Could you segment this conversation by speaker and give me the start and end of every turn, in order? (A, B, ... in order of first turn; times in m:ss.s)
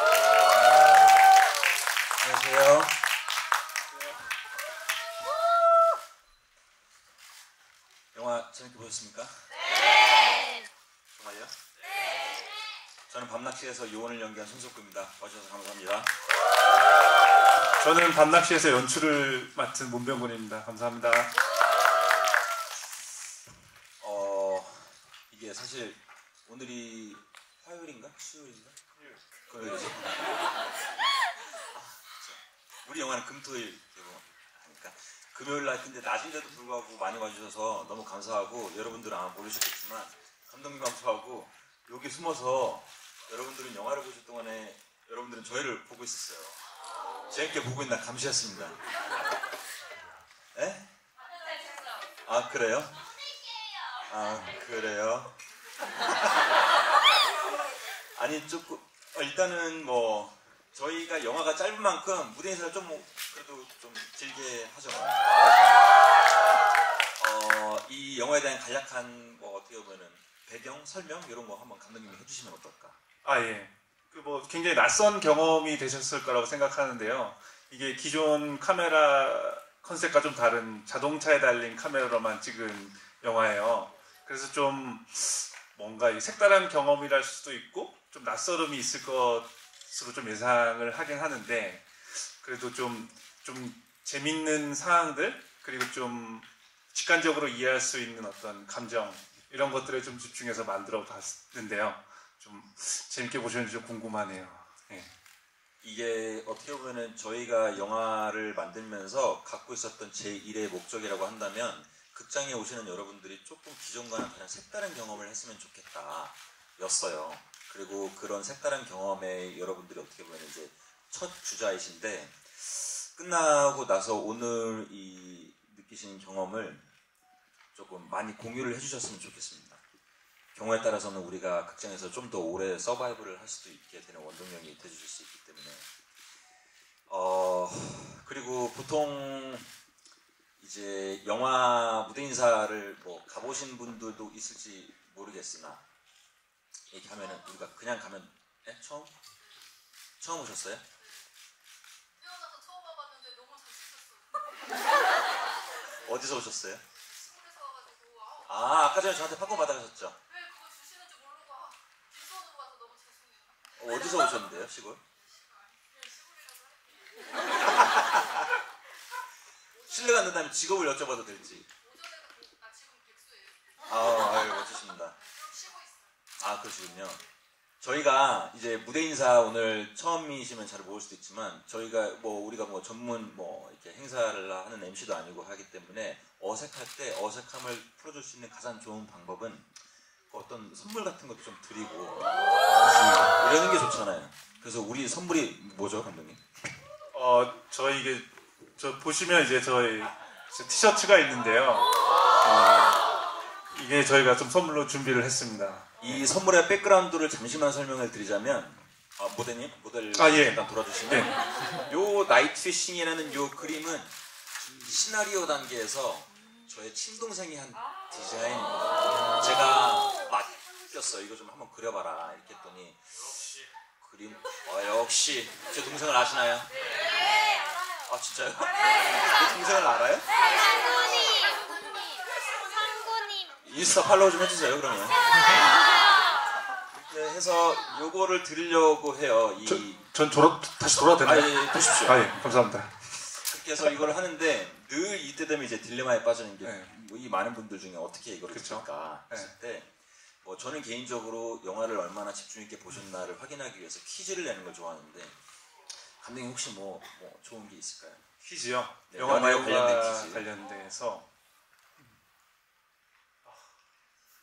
0:02.2-0:03.0 A
0:08.1-0:09.6 A
0:11.2-0:11.5 A
0:13.1-0:16.1 A
0:17.8-0:21.3 B
0:24.0-0:28.8 A
0:29.5-0:30.5 A
0:31.5-0:46.6 A
0:47.3-0:48.8 A
0:50.5-0:50.9 A
0:52.2-0:53.0 A
0:54.0-0:55.3 A
0:58.1-1:05.9 A
1:07.2-1:13.0 A
1:13.2-1:45.1 B
1:45.8-2:06.8 A
2:07.7-2:09.8 A
2:10.5-2:15.9 A
2:17.1-2:19.7 A
2:20.6-2:25.8 A
2:26.9-2:29.1 A
2:30.2-2:30.8 A
2:32.2-2:34.2 C
2:36.0-2:36.8 A
2:37.2-2:38.4 C
2:38.4-2:40.2 A
2:40.3-2:43.5 C
2:43.8-2:45.0 A
2:45.9-2:47.0 C
2:49.8-2:51.6 A
2:51.9-2:53.5 C
2:53.8-2:55.2 A
2:55.4-2:56.0 C
2:56.4-2:57.2 A
2:57.8-3:09.7 A
3:10.3-3:16.4 A
3:12.8-3:13.3 B
3:17.1-3:23.0 B
3:23.7-3:26.2 B
3:26.0-3:34.1 A
3:30.1-3:31.3 B
3:34.6-3:43.4 A
3:44.0-3:46.7 A
3:48.0-3:50.3 A
3:50.8-3:51.6 C
3:53.6-3:55.2 A
3:57.0-4:00.0 A
3:59.6-4:03.0 B
4:01.2-4:02.2 A
4:03.4-4:09.9 A
4:06.6-4:06.9 B
4:08.5-4:09.5 B
4:10.4-4:15.4 A
4:16.2-4:18.2 A
4:18.4-4:21.2 B
4:19.1-4:20.5 A